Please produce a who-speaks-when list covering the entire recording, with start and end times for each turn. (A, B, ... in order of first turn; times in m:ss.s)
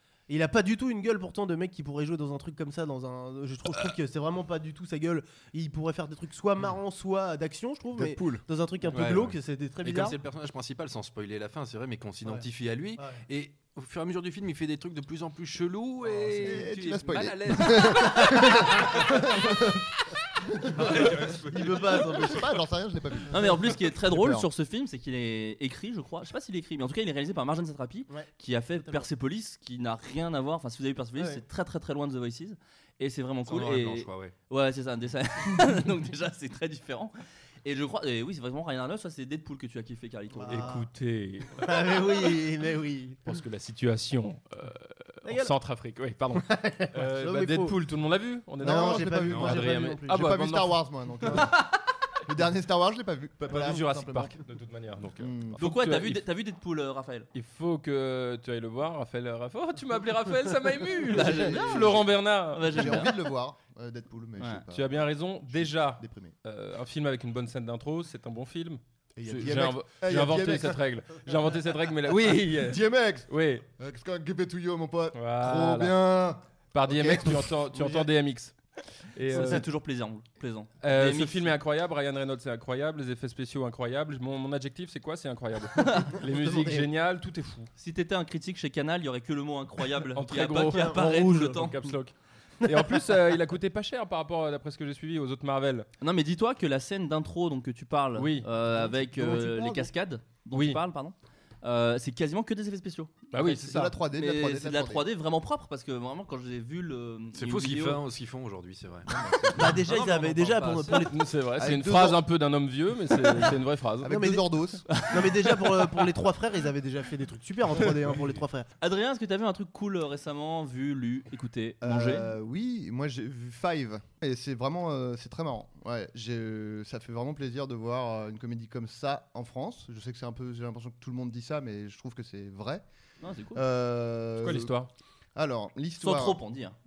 0:00.3-0:10.2 A
0:08.8-0:19.2 B
0:13.0-0:13.2 A
0:16.2-0:16.5 A
0:16.4-0:19.8 C
0:20.6-0:22.4 A
0:20.7-0:22.4 B
0:20.8-0:24.5 C
0:23.3-0:40.7 D
0:31.2-0:31.4 A
0:33.5-0:34.3 B
0:40.3-0:40.9 A
0:40.5-0:42.1 E
0:41.6-0:43.2 A
0:43.2-0:50.8 E
0:45.2-0:45.5 A
0:46.4-0:47.8 A
0:48.6-0:50.2 A
0:48.6-0:51.7 C
0:49.3-0:49.6 B
0:52.3-0:54.4 C
0:53.4-0:56.2 E
0:53.5-0:53.8 A
0:55.2-0:55.6 C
0:55.6-0:57.3 D
0:57.3-1:03.1 E
1:01.1-1:03.2 D
1:01.1-1:02.0 C
1:02.7-1:06.4 C
1:04.7-1:13.7 E
1:09.2-1:10.8 C
1:12.5-1:18.0 C
1:15.2-1:16.0 E
1:16.7-1:18.6 E
1:19.2-1:19.7 E
1:19.3-1:21.5 D
1:19.3-1:19.6 A
1:20.8-1:27.7 E
1:26.4-1:26.8 A
1:27.8-1:31.8 D
1:30.2-1:35.9 E
1:30.7-1:31.7 A
1:36.0-1:43.3 D
1:38.2-1:38.5 E
1:38.7-1:39.9 A
1:40.5-1:40.8 E
1:43.3-1:44.0 E
1:43.4-1:45.1 C
1:44.1-1:48.0 D
1:47.4-1:50.1 B
1:49.1-1:49.8 C
1:49.6-1:51.2 A
1:49.9-1:51.0 D
1:51.1-1:54.1 E
1:51.6-1:52.2 C
1:54.0-1:54.9 C
1:54.1-1:54.5 A
1:55.0-1:58.7 A
1:55.0-1:55.5 D
1:58.8-2:02.3 D
2:01.8-2:12.8 C
2:13.2-2:13.6 D
2:13.5-2:14.7 C
2:14.4-2:14.9 E
2:15.4-2:16.4 C
2:16.0-2:16.8 D